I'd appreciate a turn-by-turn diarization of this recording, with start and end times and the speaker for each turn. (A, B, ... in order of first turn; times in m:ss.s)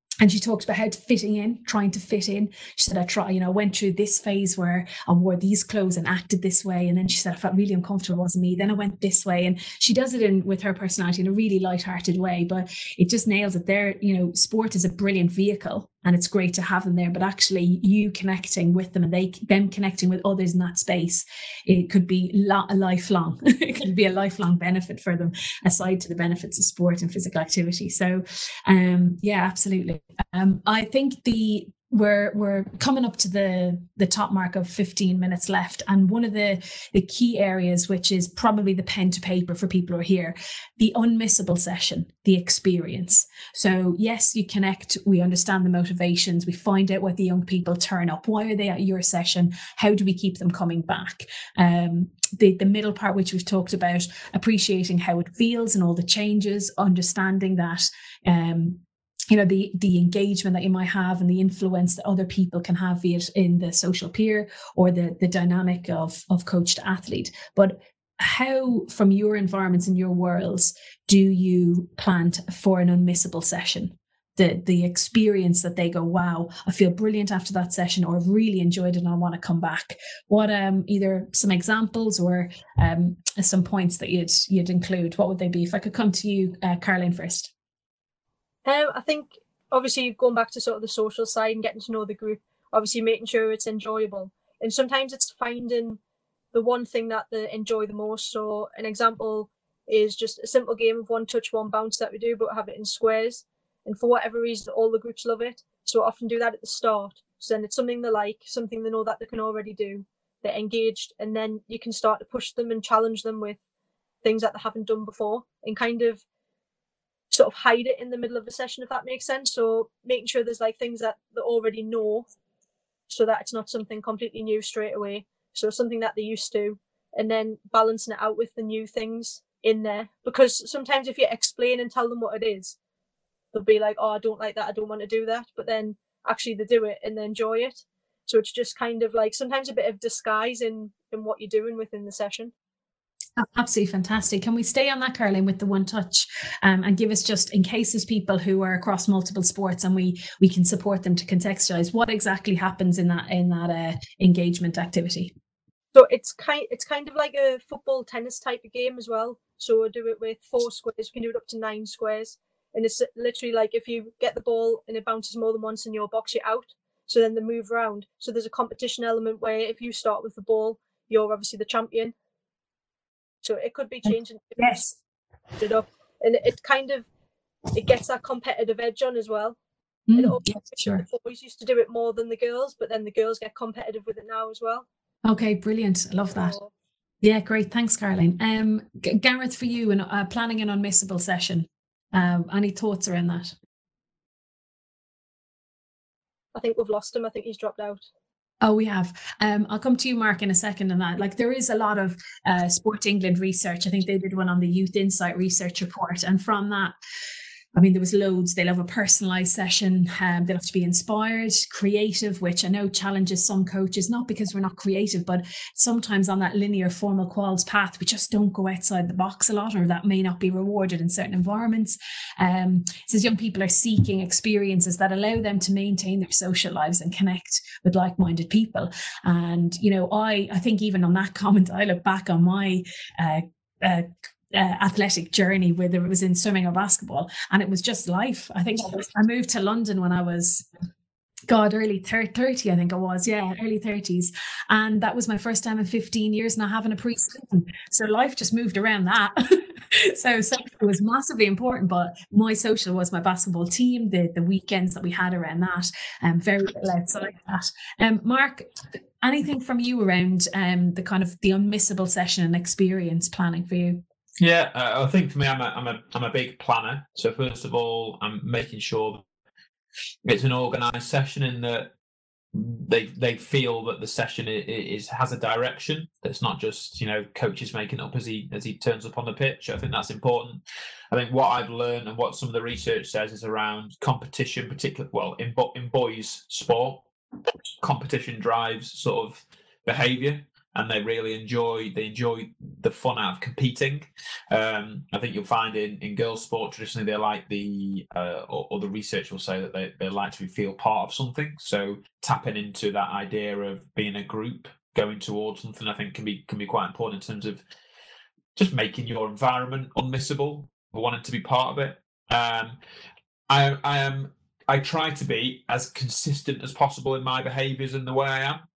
0:00.2-1:27.5 A
1:28.6-1:36.0 B
1:36.5-1:53.6 B
1:54.2-1:56.2 B
1:57.3-2:02.3 B
2:03.1-2:12.8 B
2:13.5-2:22.5 B
2:23.4-2:35.3 A
2:35.9-2:52.1 B
2:53.4-2:54.8 B
2:54.0-2:55.0 A
2:55.6-2:57.1 B
2:57.7-2:59.6 B
3:00.1-3:01.0 A
3:00.2-3:04.8 B
3:05.2-3:06.5 A
3:06.3-3:06.7 B
3:07.2-3:13.5 A
3:16.5-3:18.1 B
3:18.6-3:26.9 A
3:27.7-4:00.6 A
4:01.5-4:18.7 A
4:19.2-4:24.0 A
4:24.4-4:29.2 C
4:30.2-4:31.9 C
4:32.5-4:47.0 C
4:47.8-5:07.6 C
5:08.5-5:12.8 C
5:13.5-5:18.6 C